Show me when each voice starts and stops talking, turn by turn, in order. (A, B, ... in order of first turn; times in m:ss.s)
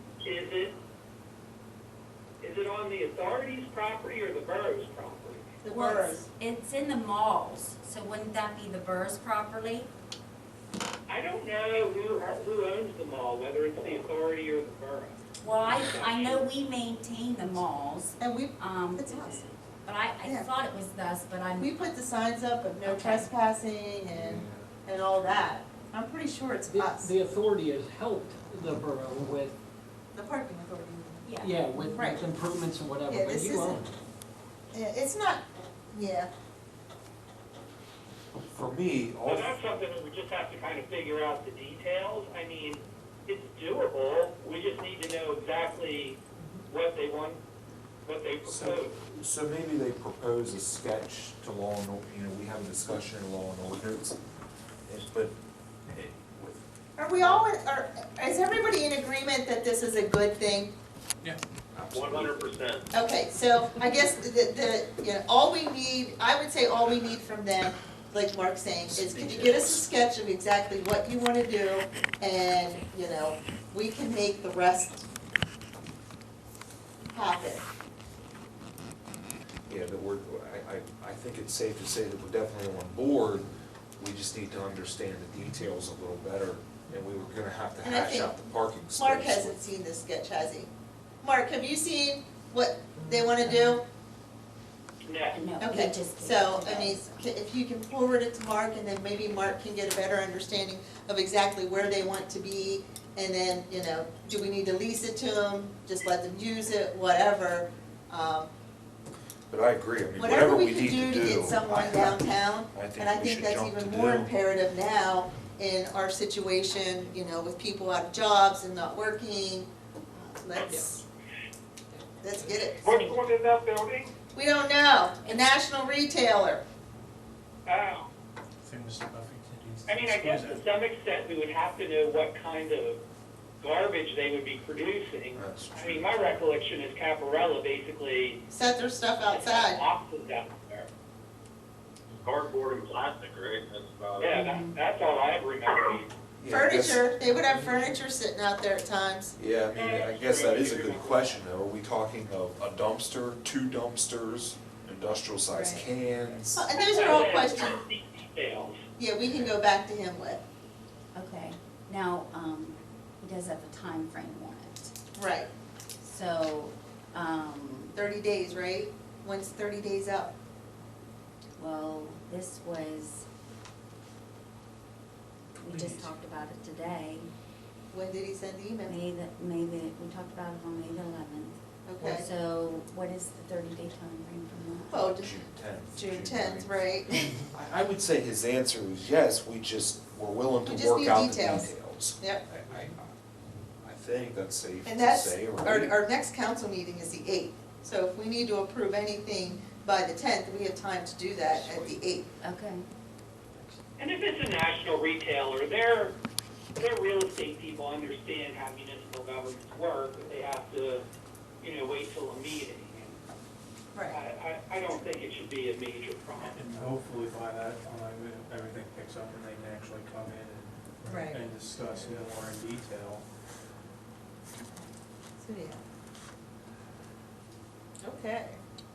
0:00.2-0:00.7 A
0:02.4-0:05.6 A
0:05.6-0:06.3 B
0:05.7-0:09.9 C
0:11.1-0:16.4 A
0:15.4-0:21.9 C
0:18.2-0:19.4 B
0:21.6-0:27.1 B
0:22.8-0:23.3 C
0:24.1-0:24.7 D
0:26.7-0:29.6 E
0:30.1-0:31.3 B
0:31.2-0:31.6 C
0:31.4-0:33.9 E
0:31.9-0:32.2 B
0:33.1-0:33.8 B
0:34.7-0:36.3 B
0:38.5-0:39.6 D
0:39.2-0:47.4 A
0:48.0-0:48.9 A
0:48.4-0:54.2 D
0:54.8-0:55.3 D
0:55.9-0:56.6 D
0:57.0-1:00.7 B
1:01.7-1:02.5 D
1:01.9-1:02.8 F
1:02.9-1:15.0 B
1:08.9-1:09.9 D
1:17.1-1:17.6 B
1:19.7-1:29.6 D
1:27.8-1:28.4 B
1:28.9-1:30.7 B
1:31.2-1:33.8 B
1:33.0-1:33.4 E
1:35.0-1:35.4 A
1:35.3-1:37.2 C
1:35.6-1:48.5 B
1:49.5-1:52.2 D
1:50.2-2:01.0 B
1:52.7-1:54.3 D
2:02.2-2:02.9 B
2:02.8-2:04.1 A
2:04.3-2:06.6 B
2:07.6-2:08.1 A
2:08.6-2:10.6 G
2:09.9-2:13.0 A
2:13.6-2:18.4 A
2:15.3-2:16.1 D
2:18.5-2:19.8 B
2:19.3-2:20.9 A
2:22.2-2:24.4 F
2:24.2-2:26.1 A
2:24.3-2:24.7 C
2:26.4-2:27.8 D
2:26.5-2:29.3 B
2:29.4-2:36.7 D
2:29.7-2:31.4 A
2:35.5-2:35.8 B
2:36.5-2:37.8 B
2:36.8-2:38.8 A
2:39.0-2:40.4 B
2:41.1-2:44.9 C
2:45.1-2:45.5 B
2:46.0-2:48.0 C
2:47.9-2:50.3 B
2:51.6-2:53.3 C
2:55.6-2:57.3 C
2:55.7-2:56.1 G
2:57.9-2:58.9 B
2:58.8-3:05.0 C
3:01.8-3:02.2 B
3:04.9-3:05.3 B
3:05.1-3:06.8 D
3:05.9-3:07.4 B
3:07.3-3:13.2 D
3:10.6-3:12.4 B
3:13.8-3:16.0 D
3:14.8-3:22.3 B
3:21.5-3:22.0 D
3:22.4-3:22.8 C
3:24.0-3:26.2 A
3:26.8-3:31.0 A
3:31.6-3:33.2 A
3:33.9-3:34.2 B
3:34.1-3:36.6 A
3:36.4-3:43.2 G
3:41.0-3:42.2 B
3:45.4-3:45.8 B
3:48.0-3:48.6 B